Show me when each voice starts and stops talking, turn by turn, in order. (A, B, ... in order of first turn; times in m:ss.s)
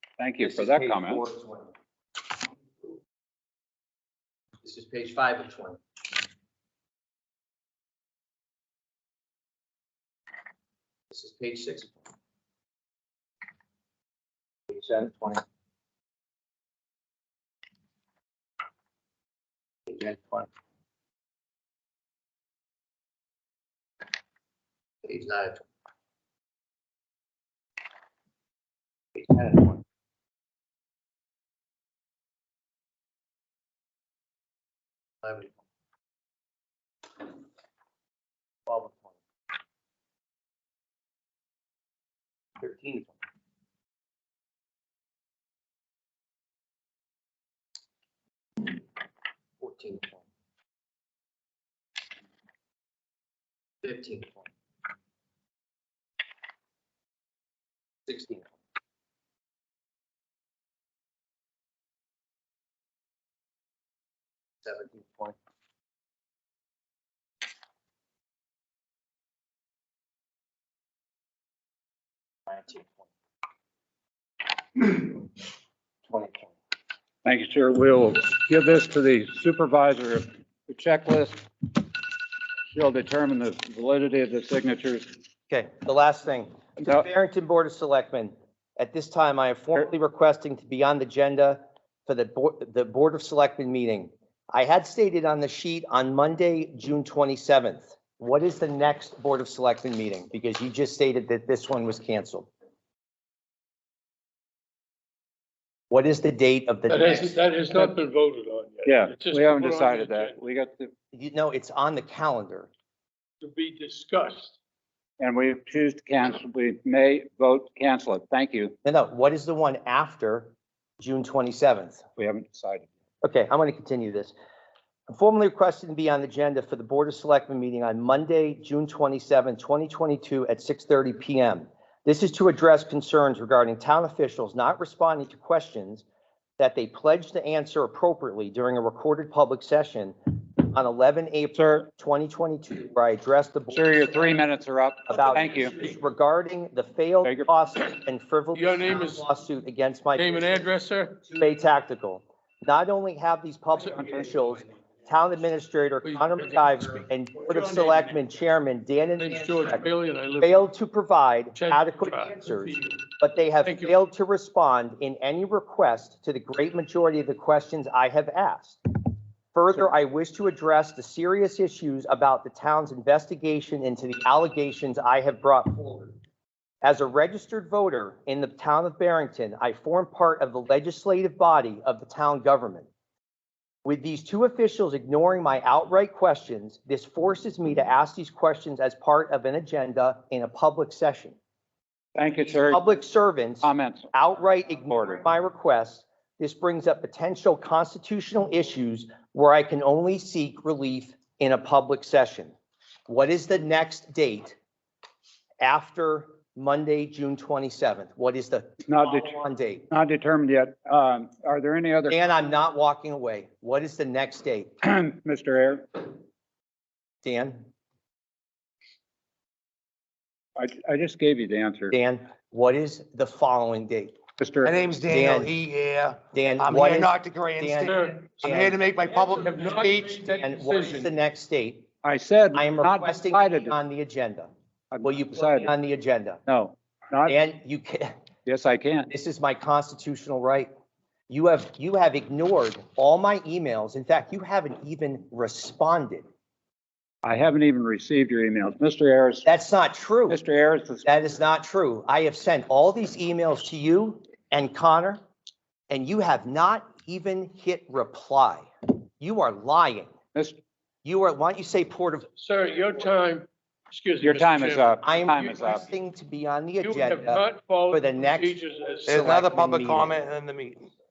0:00.2-0:01.2 A
0:00.4-0:01.7 B
0:04.6-0:05.8 B
0:11.1-0:12.0 B
0:14.7-0:15.4 B
0:19.9-0:20.5 B
0:25.0-0:25.6 B
0:29.2-0:29.8 B
0:35.2-0:35.5 B
0:38.7-0:39.1 B
0:42.6-0:43.1 B
0:49.6-0:50.2 B
0:53.8-0:54.5 B
0:58.1-0:58.5 B
1:04.7-1:05.3 B
1:12.5-1:12.9 B
1:16.1-1:16.4 B
1:17.2-1:21.4 A
1:22.7-1:25.1 A
1:25.5-1:42.5 B
1:26.8-1:27.1 A
1:45.9-1:47.9 B
1:46.9-1:50.4 C
1:48.8-1:50.9 A
1:51.1-1:52.7 B
1:53.4-1:54.6 C
1:55.2-1:58.8 A
1:58.8-2:02.0 B
2:02.2-2:02.9 A
2:03.2-2:04.3 B
2:05.1-2:16.0 B
2:16.6-2:24.4 B
2:21.6-2:21.9 A
2:23.7-2:25.8 A
2:25.1-2:30.7 B
2:27.2-2:27.5 A
2:28.5-2:29.3 C
2:30.2-2:31.2 C
2:31.3-2:39.8 B
2:33.9-2:34.5 A
2:36.0-2:38.2 C
2:39.2-2:40.6 C
2:40.4-2:48.8 B
2:41.6-2:43.0 C
2:43.6-2:43.9 C
2:49.5-2:56.2 B
2:56.8-3:02.9 B
3:03.8-3:11.4 B
3:12.2-3:12.9 A
3:12.4-3:22.5 B
3:13.6-3:14.1 A
3:14.9-3:15.2 A
3:23.1-3:24.6 B
3:25.6-3:29.9 B
3:28.9-3:29.4 A
3:29.9-3:32.2 A
3:32.1-3:34.7 B
3:34.8-3:35.9 A
3:37.2-3:37.7 B
3:40.6-3:42.0 A
3:41.9-3:44.2 B
3:44.4-3:44.8 A
3:44.6-3:50.2 D
3:45.1-3:45.6 B
3:46.3-3:48.8 B
3:47.8-3:48.5 C
3:49.1-3:51.1 C
3:50.3-3:51.9 B
3:52.0-3:53.8 A
3:52.5-3:54.5 B
3:54.9-3:55.7 A
3:55.0-3:56.4 B
3:56.5-3:57.4 A
3:57.3-3:58.1 B
3:58.5-3:59.1 A
3:59.1-4:00.7 B
4:01.3-4:06.2 B
4:07.2-4:09.5 A
4:09.4-4:10.4 B
4:10.3-4:11.1 A
4:11.0-4:15.2 B
4:15.9-4:18.7 B
4:19.2-4:20.1 B
4:21.0-4:22.3 B
4:22.4-4:25.8 C
4:24.2-4:25.9 A
4:25.0-4:28.6 B
4:26.8-4:29.2 C
4:29.1-4:30.9 D
4:29.1-4:30.2 B